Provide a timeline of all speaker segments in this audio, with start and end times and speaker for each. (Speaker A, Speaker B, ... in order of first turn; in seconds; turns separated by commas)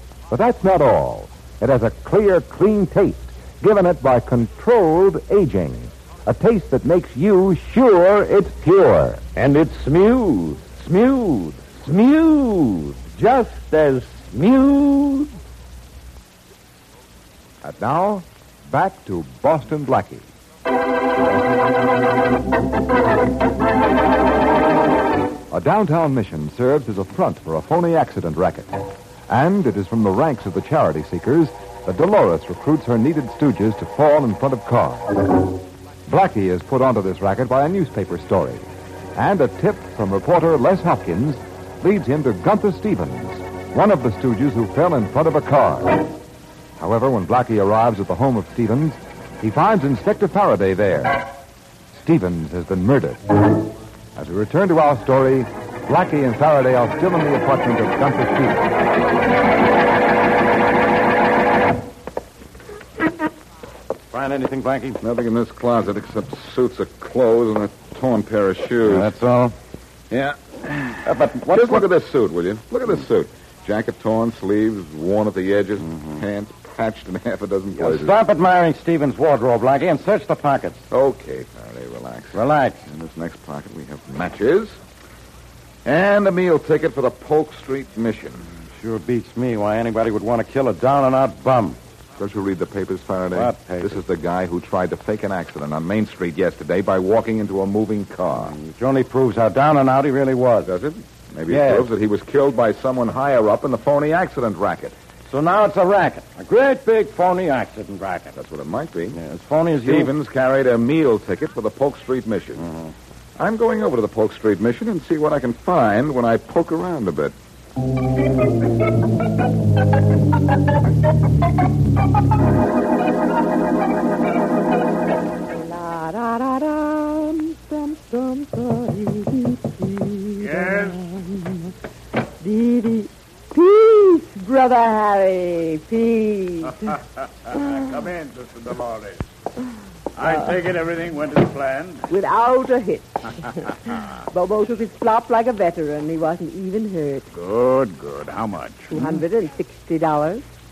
Speaker A: 0.3-9.2, Speaker B: 9.3-15.3, Speaker A: 17.6-20.3, Speaker A: 25.5-35.2, Speaker A: 36.1-46.1, Speaker A: 46.8-51.3, Speaker A: 51.9-53.6, Speaker A: 54.1-58.7, Speaker C: 64.1-65.0, Speaker D: 65.0-69.1, Speaker C: 68.8-69.5, Speaker D: 70.1-78.2, Speaker C: 71.0-71.9, Speaker C: 75.9-76.2, Speaker C: 77.7-80.8, Speaker D: 80.9-84.8, Speaker C: 82.3-82.8, Speaker D: 85.8-88.4, Speaker C: 88.8-91.8, Speaker D: 92.2-98.5, Speaker C: 93.3-94.0, Speaker C: 98.3-100.7, Speaker D: 100.6-105.0, Speaker C: 101.5-101.9, Speaker C: 105.3-108.4, Speaker D: 108.4-109.2, Speaker C: 109.1-110.1, Speaker D: 109.8-112.6, Speaker C: 112.6-112.9, Speaker D: 113.4-117.3, Speaker E: 125.5-131.7, Speaker F: 130.4-131.1, Speaker E: 132.4-136.9, Speaker F: 137.5-139.3, Speaker F: 140.2-142.1, Speaker E: 142.1-143.7, Speaker E: 144.3-147.3, Speaker F: 147.3-149.2, Speaker E: 148.9-150.4